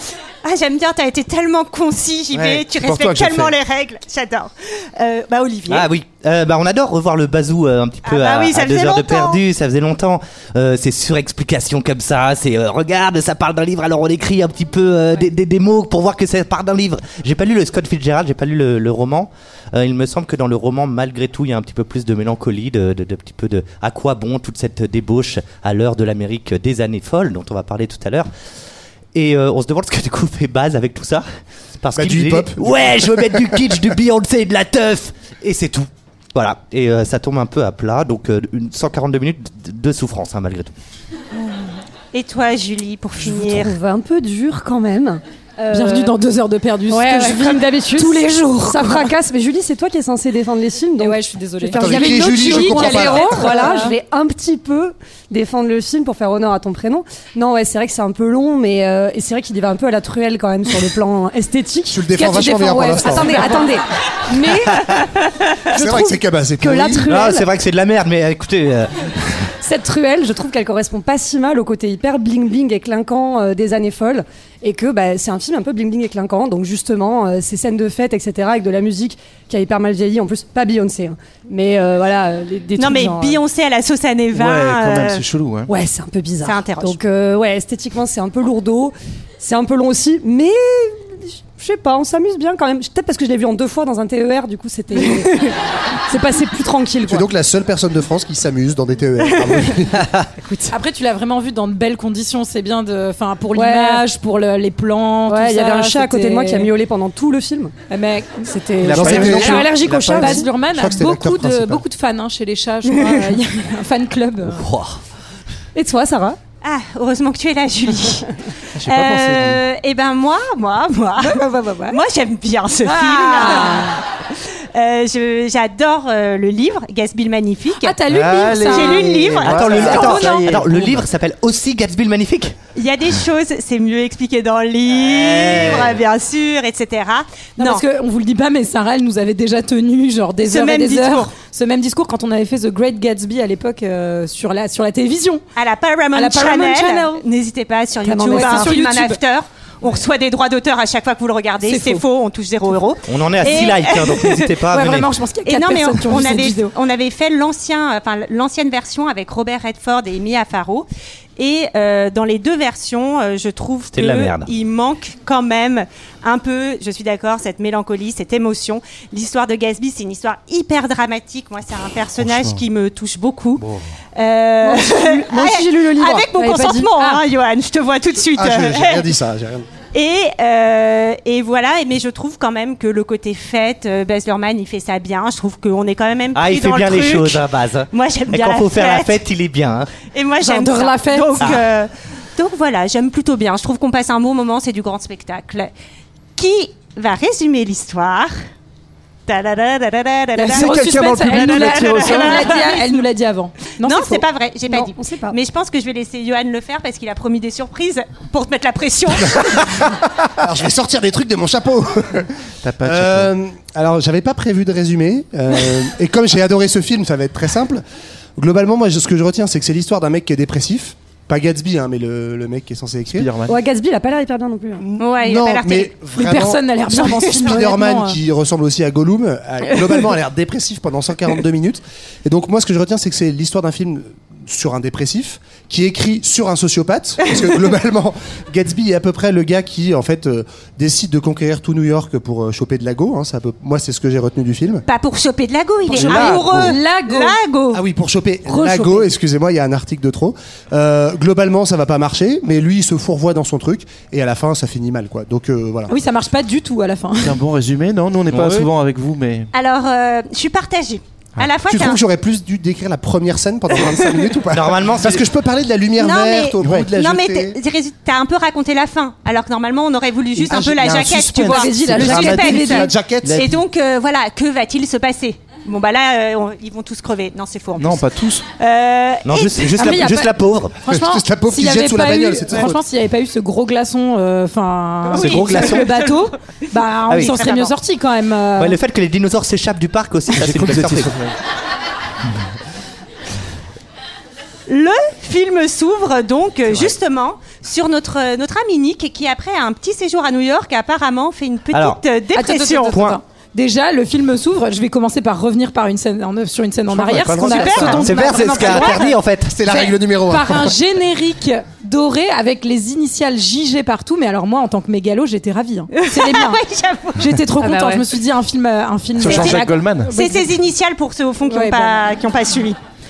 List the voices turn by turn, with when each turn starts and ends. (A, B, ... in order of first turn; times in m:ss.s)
0:00.4-0:05.9 A
0:02.3-0:03.5 B
0:05.7-0:28.3 C
0:08.0-0:09.4 A
0:29.1-0:31.2 C
0:31.8-0:40.7 C
0:31.9-0:33.7 D
0:42.1-0:43.7 A
0:43.2-0:46.2 E
0:45.7-0:49.1 F
0:46.9-1:05.0 E
0:51.0-0:53.9 F
0:51.7-0:53.5 D
1:01.9-1:03.6 D
1:02.1-1:03.6 F
1:05.7-1:07.5 E
1:05.7-1:07.1 D
1:07.0-1:09.5 C
1:09.6-1:23.4 E
1:22.8-1:25.2 A
1:24.3-1:25.7 B
1:25.7-1:35.5 E
1:26.4-1:27.0 A
1:36.1-1:37.3 E
1:37.1-1:40.1 D
1:40.4-1:40.7 E
1:40.7-1:46.7 F
1:43.5-1:44.0 E
1:45.3-1:47.7 E
1:47.9-1:54.6 F
1:48.5-1:50.5 E
1:48.8-1:50.4 B
1:48.9-1:51.8 D
1:54.5-1:55.0 C
1:55.7-1:56.4 E
1:56.6-1:58.3 A
1:58.8-1:59.6 B
1:58.8-2:08.0 A
2:01.2-2:02.0 F
2:02.8-2:04.0 F
2:07.8-2:10.5 F
2:08.1-2:11.0 B
2:08.7-2:10.4 A
2:09.4-2:12.5 C
2:12.7-2:17.8 A
2:14.9-2:16.0 C
2:17.6-2:25.4 F
2:20.4-2:21.3 A
2:25.6-2:34.3 A
2:26.1-2:27.2 F
2:28.0-2:28.8 E
2:28.3-2:29.2 F
2:31.6-2:32.0 F
2:33.1-2:35.1 C
2:34.6-2:36.7 F
2:35.4-2:53.6 A
2:43.9-2:44.5 C
2:52.2-2:52.6 B
2:54.2-2:59.1 A
2:54.6-2:57.1 E
2:58.3-2:59.7 D
2:59.9-3:09.2 A
3:06.3-3:09.9 C
3:10.1-3:15.7 A
3:10.4-3:11.6 F
3:16.4-3:18.3 A
3:19.3-3:23.0 A
3:20.4-3:22.6 B
3:20.4-3:24.2 F
3:23.8-3:29.9 A
3:24.7-3:25.4 E
3:30.4-3:32.3 D
3:32.6-3:33.3 B
3:32.8-3:37.8 D
3:38.4-3:43.3 D
3:43.1-3:43.5 B
3:43.5-3:44.9 E
3:44.8-4:04.8 D
3:45.0-3:45.9 A
3:46.1-3:48.2 F
4:04.9-4:07.8 A
4:05.9-4:06.7 D
4:06.0-4:06.7 B
4:06.0-4:07.4 F
4:07.7-4:15.9 D
4:08.5-4:09.0 F
4:15.9-4:17.4 F
4:17.2-4:19.5 B
4:18.3-4:18.6 C
4:19.5-4:22.0 A
4:21.7-4:27.6 D
4:24.5-4:25.2 C
4:26.0-4:38.1 A
4:26.6-4:26.9 B
4:30.4-4:32.7 B
4:30.5-4:30.9 D
4:31.5-4:32.9 F
4:31.9-4:33.5 D
4:33.2-4:33.6 B
4:37.8-4:38.4 B
4:38.6-4:40.0 A
4:39.3-4:40.8 C
4:39.8-4:48.8 F
4:40.9-4:42.8 D
4:45.1-4:46.2 A
4:45.1-4:46.1 C
4:47.1-4:47.4 C
4:47.2-4:47.7 A
4:48.6-4:51.1 C
4:50.3-4:51.4 B
4:54.7-5:03.0 A
5:01.7-5:02.0 C
5:02.3-5:09.1 F
5:02.9-5:03.2 C
5:06.9-5:10.8 D
5:07.4-5:08.2 A
5:07.8-5:09.8 C
5:09.6-5:16.6 F
5:16.0-5:17.8 A
5:17.2-5:20.5 F
5:17.8-5:18.0 E
5:19.2-5:20.1 B
5:19.2-5:22.8 A
5:21.5-5:22.0 F